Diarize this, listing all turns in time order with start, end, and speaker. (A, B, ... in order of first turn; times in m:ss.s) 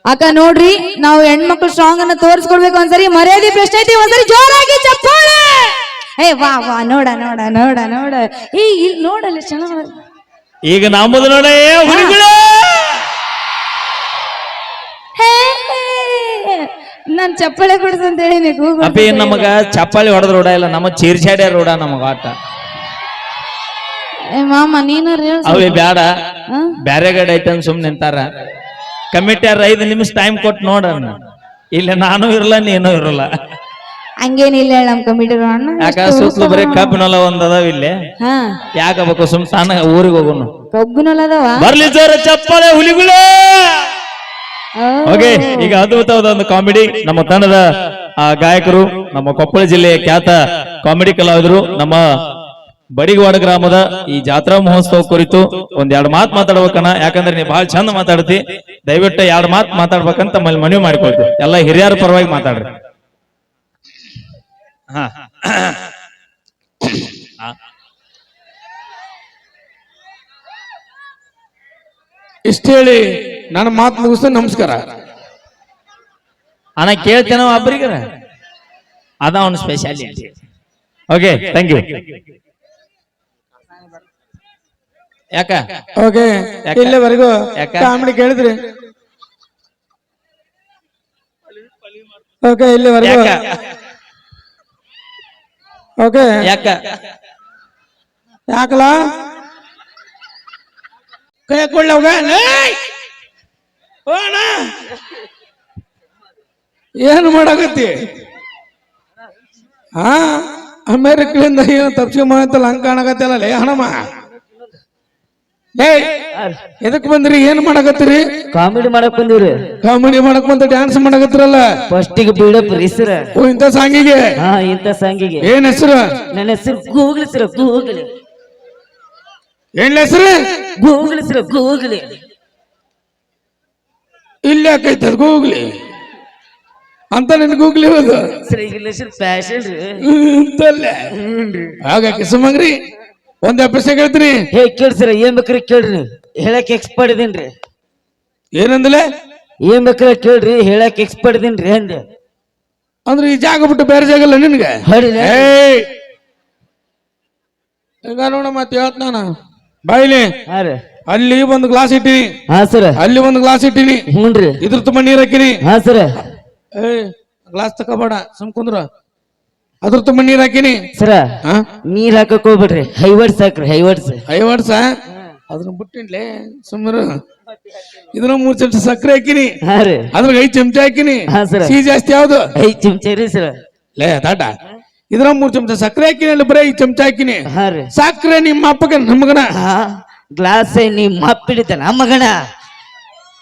0:00.1-0:09.9 A
0:10.7-0:13.0 B
0:11.9-0:12.2 A
0:15.2-0:19.5 A
0:18.8-0:22.3 B
0:24.4-0:25.8 A
0:25.4-0:26.1 B
0:26.9-0:28.2 B
0:29.1-0:31.2 B
0:31.8-0:33.3 B
0:34.2-0:37.0 A
0:35.8-0:38.0 B
0:38.2-0:38.5 A
0:38.8-0:40.5 B
0:40.7-0:41.7 A
0:41.6-0:43.8 B
0:44.8-0:45.7 A
0:45.1-0:47.6 B
0:48.2-0:52.0 B
0:53.0-1:02.7 B
1:04.9-1:05.8 B
1:12.5-1:14.8 C
1:16.8-1:18.0 B
1:19.2-1:20.3 B
1:21.1-1:22.0 B
1:25.4-1:25.6 B
1:26.0-1:28.6 C
1:26.7-1:27.0 B
1:27.6-1:27.9 B
1:32.4-1:33.3 C
1:33.0-1:33.5 B
1:36.0-1:36.4 C
1:36.4-1:36.8 B
1:38.5-1:39.0 C
1:41.5-1:42.8 C
1:44.1-1:44.7 C
1:47.0-1:48.0 C
1:50.0-1:54.0 C
1:55.8-1:56.1 C
1:56.8-1:58.2 C
1:58.5-1:59.6 D
1:59.8-2:01.7 C
2:01.9-2:03.3 D
2:03.4-2:04.3 C
2:04.4-2:05.5 D
2:05.4-2:06.1 C
2:06.3-2:08.1 D
2:09.8-2:10.4 C
2:10.8-2:12.1 D
2:14.4-2:15.7 C
2:17.1-2:18.2 C
2:18.5-2:20.0 D
2:20.0-2:21.0 C
2:21.2-2:21.7 D
2:21.8-2:22.8 C
2:23.4-2:24.4 C
2:24.5-2:27.5 D
2:28.5-2:29.0 C
2:29.6-2:32.0 D
2:33.1-2:35.9 C
2:34.8-2:35.5 D
2:38.0-2:39.3 C
2:39.9-2:40.3 C
2:40.5-2:40.8 D
2:41.1-2:42.3 C
2:42.5-2:43.0 D
2:43.0-2:44.0 C
2:44.1-2:44.6 D
2:44.6-2:45.6 C
2:45.6-2:46.2 D
2:46.8-2:48.9 C
2:49.8-2:50.8 C
2:51.0-2:51.3 D
2:51.9-2:54.2 D
2:54.3-2:54.9 C
2:55.5-2:57.2 C
2:58.1-2:59.6 C
2:59.6-3:00.1 D
3:00.1-3:02.4 C
3:01.3-3:01.8 D
3:02.6-3:03.6 D
3:04.0-3:04.5 C
3:05.1-3:09.5 C
3:07.5-3:07.9 D
3:09.6-3:12.5 D